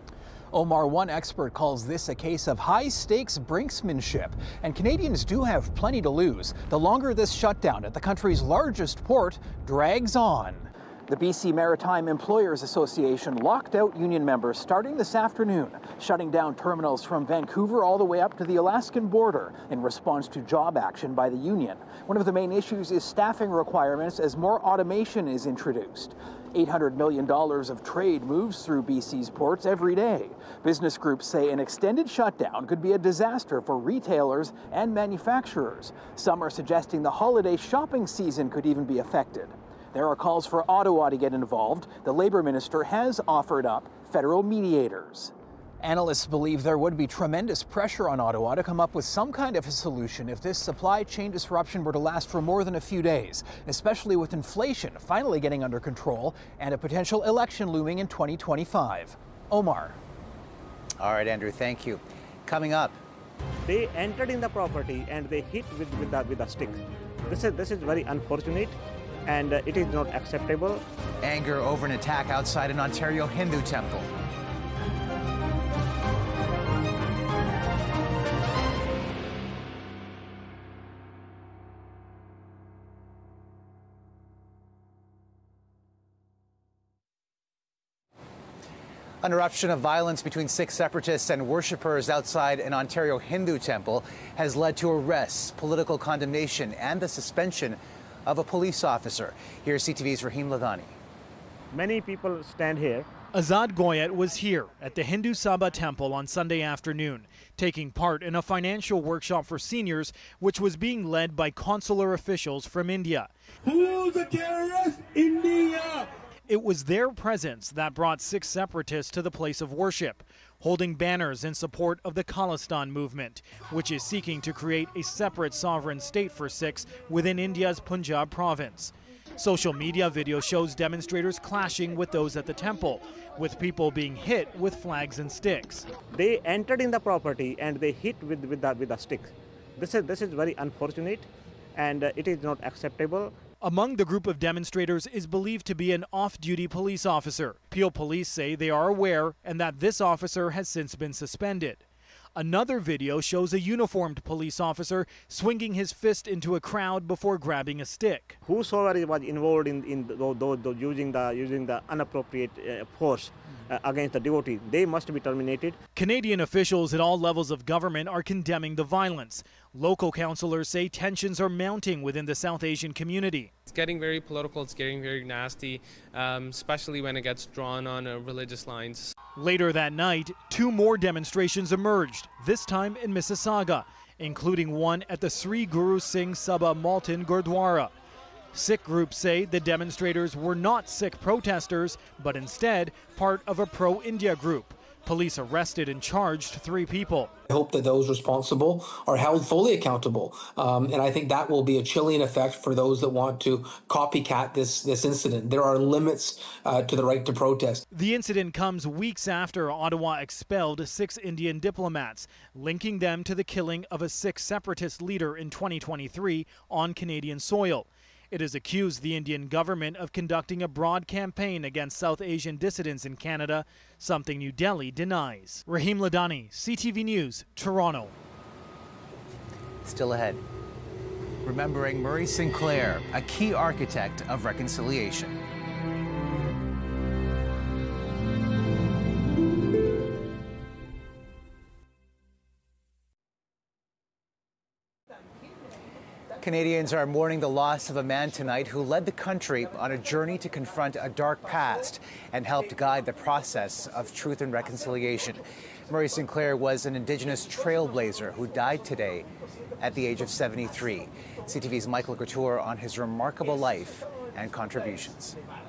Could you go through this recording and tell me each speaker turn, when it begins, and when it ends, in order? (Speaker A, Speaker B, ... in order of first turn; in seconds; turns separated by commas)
Speaker A: 0.5-60.0, Speaker B: 61.0-63.0, Speaker C: 63.7-70.8, Speaker B: 71.2-74.1, Speaker B: 89.2-100.9, Speaker C: 101.7-103.1, Speaker D: 103.3-113.3, Speaker E: 113.7-116.1, Speaker D: 116.5-135.9, Speaker C: 136.1-143.3, Speaker D: 143.6-151.8, Speaker D: 152.4-158.4, Speaker C: 158.4-165.8, Speaker D: 165.9-173.5, Speaker F: 173.7-179.1, Speaker D: 179.4-187.9, Speaker D: 188.5-197.3, Speaker G: 197.5-207.8, Speaker D: 207.9-228.1, Speaker B: 229.8-230.4, Speaker B: 231.4-235.4, Speaker B: 246.4-259.3, Speaker B: 259.8-265.4